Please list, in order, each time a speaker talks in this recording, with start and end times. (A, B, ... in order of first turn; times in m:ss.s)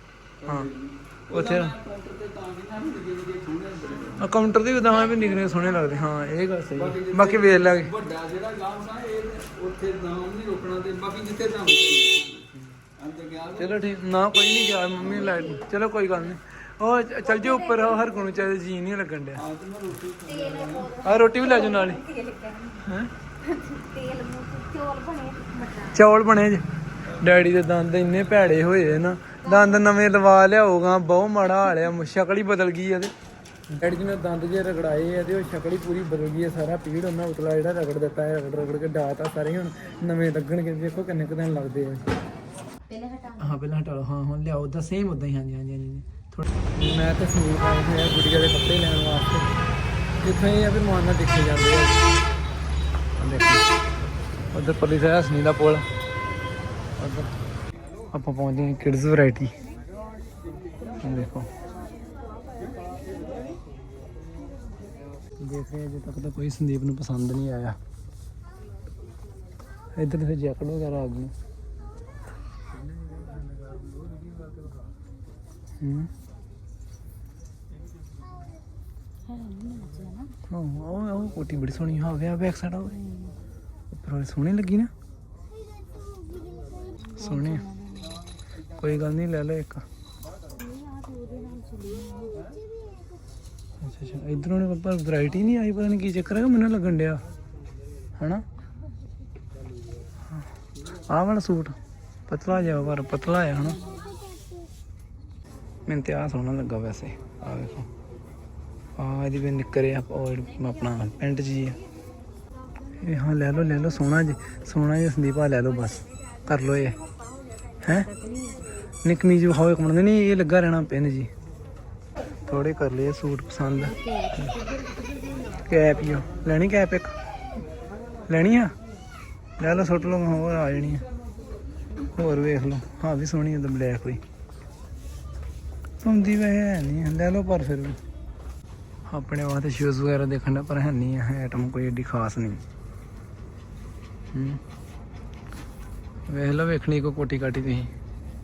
0:00.4-0:04.3 A
0:01.3-0:01.7 B
0:04.2-0:07.9 B
0:04.8-0:06.3 C
0:06.8-0:13.8 A
0:13.6-0:19.4 B
0:15.0-0:16.3 C
0:15.0-0:15.5 A
0:17.2-0:18.5 C
0:19.4-0:20.9 A
0:20.2-0:22.9 C
0:21.0-0:22.0 B
0:22.8-0:23.1 B
0:23.4-0:26.0 C
0:25.9-0:26.6 B
0:27.1-0:29.1 A
0:27.2-0:33.1 B
0:29.4-0:29.9 C
0:33.7-0:42.1 B
0:42.9-0:43.6 C
0:43.4-0:49.5 B
0:50.2-0:52.0 B
0:53.2-0:53.7 B
0:54.5-0:55.9 B
0:57.0-0:57.3 B
0:58.1-0:59.6 B
1:01.0-1:01.5 B
1:05.4-1:07.8 B
1:10.0-1:11.3 B
1:13.0-1:13.4 B
1:15.8-1:16.1 B
1:19.3-1:20.3 C
1:20.5-1:23.0 B
1:22.9-1:23.4 C
1:23.9-1:24.9 B
1:27.2-1:28.2 C
1:27.2-1:27.6 B
1:28.8-1:29.8 B
1:30.5-1:32.6 C
1:33.8-1:37.2 B
1:38.2-1:38.4 B
1:40.3-1:41.8 B
1:42.3-1:43.8 B
1:45.9-1:47.9 B
1:49.0-1:51.8 B
1:53.0-1:57.0 B
1:57.8-1:58.1 B
1:57.9-1:58.7 C
1:59.0-2:01.3 B
2:02.5-2:04.6 B
2:03.8-2:05.5 C
2:05.6-2:07.1 B
2:08.3-2:08.7 B
2:09.6-2:11.0 B
2:12.1-2:14.2 B
2:16.0-2:18.0 B
2:19.1-2:22.6 B
2:24.3-2:24.6 B
2:26.3-2:27.9 B